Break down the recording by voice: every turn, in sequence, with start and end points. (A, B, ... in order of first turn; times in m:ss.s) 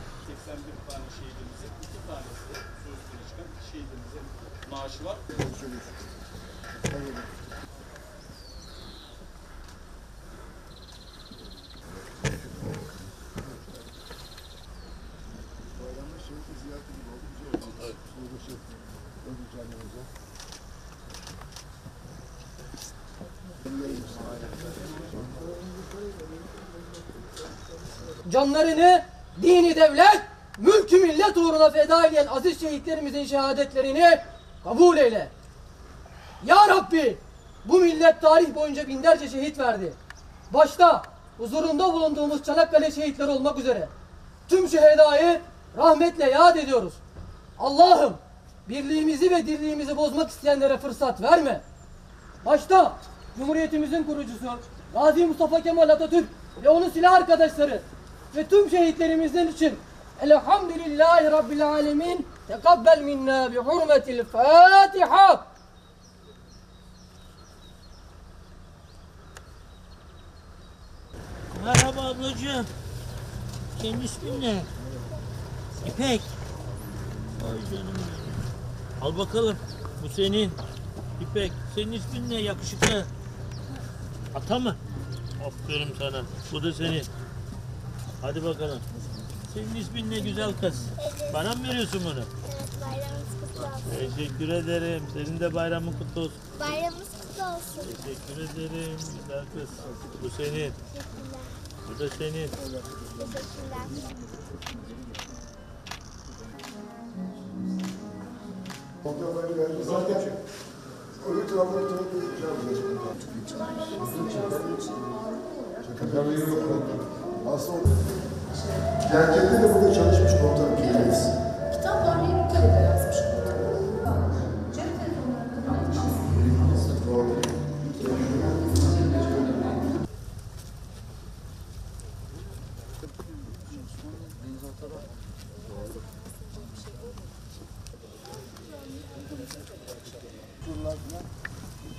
0:00.3-0:05.2 A
0:05.4-0:05.9 B
0:06.9-0:07.3 B
0:15.8-0:17.4 B
0:17.6-0:18.0 C
0:18.2-0:18.6 B
0:19.3-0:20.0 B
0:28.2-0:35.3 D
0:36.4-0:40.0 D
0:40.5-0:43.9 D
0:44.5-0:47.0 D
0:47.6-0:51.6 D
0:52.4-1:05.4 D
1:11.5-1:12.7 C
1:13.8-1:14.7 C
1:15.8-1:16.3 C
1:17.4-1:20.6 C
1:21.2-1:23.1 C
1:24.3-1:24.8 C
1:25.4-1:27.1 C
1:28.2-1:28.9 C
1:29.5-1:32.3 C
1:32.4-1:33.3 E
1:33.6-1:36.8 C
1:36.7-1:37.6 E
1:37.7-1:40.8 C
1:40.9-1:41.6 E
1:41.8-1:42.6 C
1:43.3-1:44.1 E
1:49.0-1:50.3 B
1:51.2-1:53.3 B
1:54.0-1:54.7 F
1:54.1-1:54.8 B
1:55.8-1:57.8 B
1:59.0-2:01.3 B
2:01.9-2:03.0 F
2:04.8-2:06.4 F
2:20.6-2:21.2 B